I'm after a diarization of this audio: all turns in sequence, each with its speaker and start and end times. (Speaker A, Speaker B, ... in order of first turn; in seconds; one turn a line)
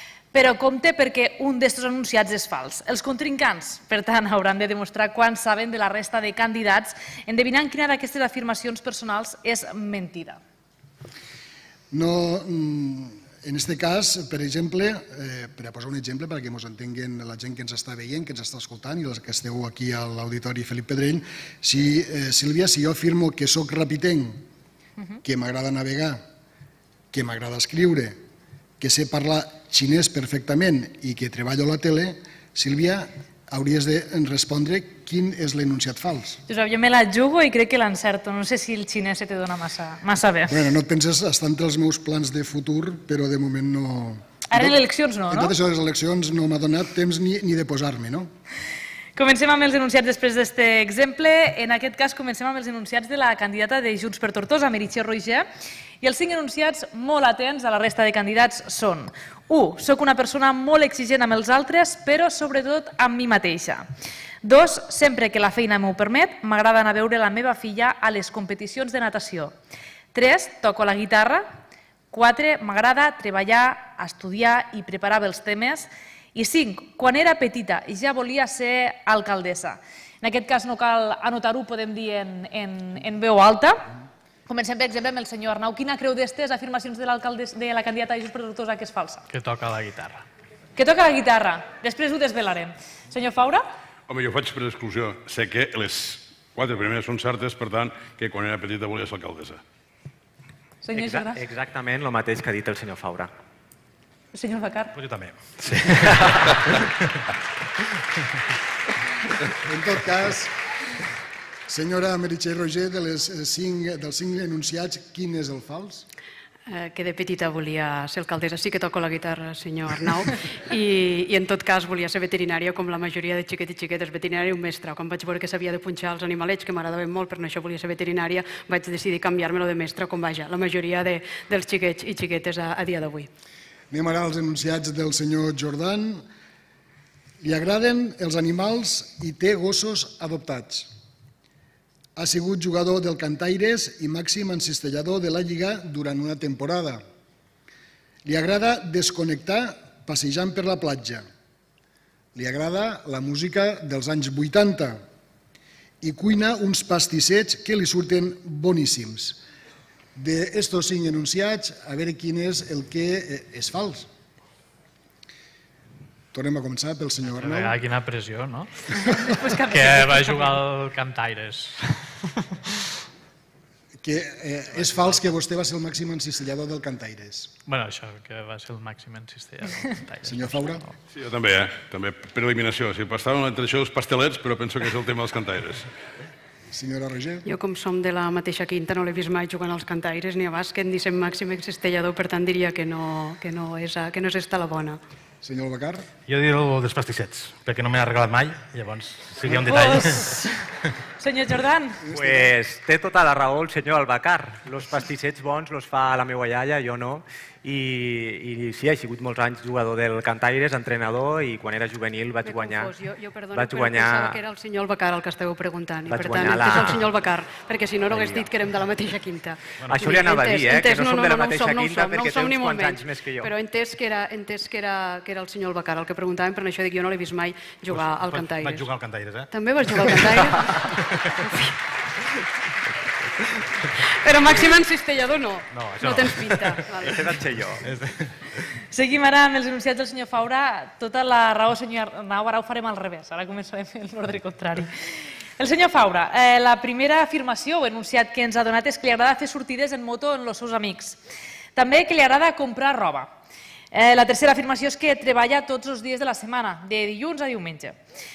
Speaker A: 0.3-10.4
Speaker B: 11.9-24.4
Speaker B: 25.2-26.2
Speaker B: 27.1-28.2
Speaker B: 28.8-36.4
Speaker A: 36.5-40.6
Speaker B: 40.5-44.8
Speaker A: 44.5-45.5
Speaker B: 45.3-48.3
Speaker A: 49.1-55.5
Speaker A: 56.0-63.8
Speaker A: 64.4-69.5
Speaker A: 70.1-71.5
Speaker A: 72.1-83.8
Speaker A: 84.5-89.2
Speaker C: 89.3-90.2
Speaker A: 90.8-93.7
Speaker D: 94.1-99.6
Speaker A: 100.8-101.4
Speaker E: 100.9-103.3
Speaker A: 104.3-104.9
Speaker F: 104.9-106.9
Speaker B: 109.6-110.5
Speaker B: 111.7-116.0
Speaker G: 116.7-133.3
Speaker B: 133.9-136.2
Speaker B: 137.4-140.9
Speaker B: 142.2-147.0
Speaker B: 148.2-151.2
Speaker B: 152.3-155.0
Speaker B: 156.0-159.4
Speaker B: 160.1-164.1
Speaker B: 166.3-167.8
Speaker C: 167.2-168.9
Speaker A: 169.0-170.4
Speaker C: 169.5-172.5
Speaker B: 174.0-177.5
Speaker C: 174.7-175.4
Speaker C: 177.7-180.9
Speaker B: 180.2-180.8
Speaker D: 181.1-185.9
Speaker B: 186.7-187.4
Speaker G: 187.4-195.0
Speaker B: 195.4-196.1
Speaker F: 196.2-200.3
Speaker A: 199.6-200.5
Speaker A: 201.2-202.0
Speaker E: 202.1-212.9
Speaker B: 202.1-202.4
Speaker G: 212.4-228.9
Speaker E: 213.5-214.4
Speaker E: 216.1-217.1
Speaker E: 218.1-218.5
Speaker F: 219.8-220.2
Speaker E: 219.9-223.5
Speaker F: 228.3-229.5
Speaker G: 229.5-231.8
Speaker G: 234.2-237.2
Speaker F: 235.7-236.8
Speaker E: 237.0-237.8
Speaker F: 237.8-238.3
Speaker A: 238.9-244.9
Speaker A: 245.6-251.2
Speaker A: 251.8-253.3
Speaker A: 253.9-257.9